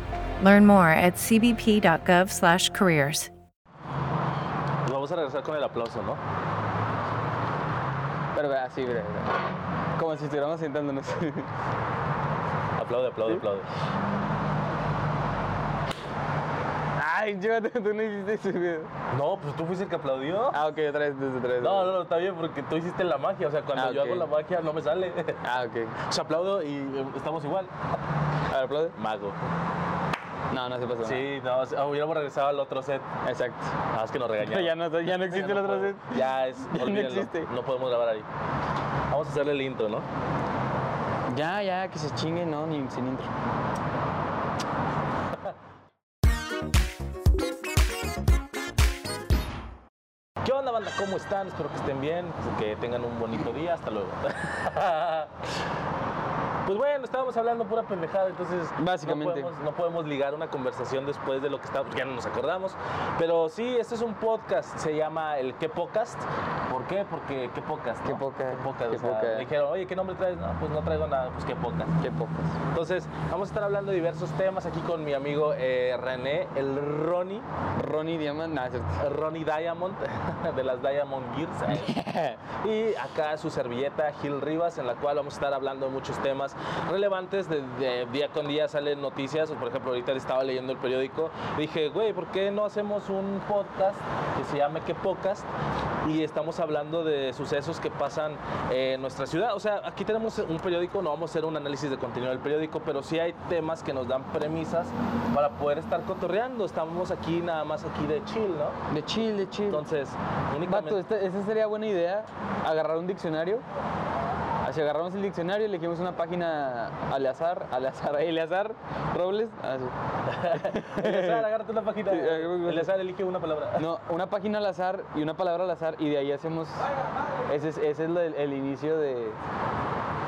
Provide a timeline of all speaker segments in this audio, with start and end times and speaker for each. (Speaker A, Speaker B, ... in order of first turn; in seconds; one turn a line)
Speaker A: 0.4-3.3
Speaker B: 4.8-6.2
Speaker C: 8.3-9.4
Speaker C: 10.0-11.5
Speaker B: 12.8-13.7
Speaker C: 17.0-18.9
Speaker B: 19.1-20.6
Speaker C: 20.5-21.9
Speaker B: 21.6-25.4
Speaker C: 23.7-24.3
Speaker C: 25.4-26.0
Speaker B: 26.1-27.7
Speaker C: 28.5-28.9
Speaker B: 29.0-29.4
Speaker C: 30.5-31.3
Speaker B: 31.0-33.1
Speaker C: 33.2-33.7
Speaker B: 33.9-38.3
Speaker C: 34.4-37.5
Speaker B: 39.1-40.1
Speaker C: 41.3-43.3
Speaker B: 50.4-55.3
Speaker B: 56.6-71.9
Speaker C: 58.8-59.5
Speaker C: 68.0-69.5
Speaker C: 72.0-72.5
Speaker B: 72.7-77.5
Speaker C: 77.8-79.0
Speaker B: 79.0-81.9
Speaker C: 81.7-82.4
Speaker B: 82.6-95.5
Speaker B: 96.0-108.8
Speaker C: 108.9-109.8
Speaker B: 109.7-111.0
Speaker C: 110.6-113.6
Speaker C: 114.6-119.9
Speaker B: 120.2-123.8
Speaker C: 120.5-121.5
Speaker C: 122.1-122.9
Speaker C: 123.8-126.8
Speaker C: 127.5-129.4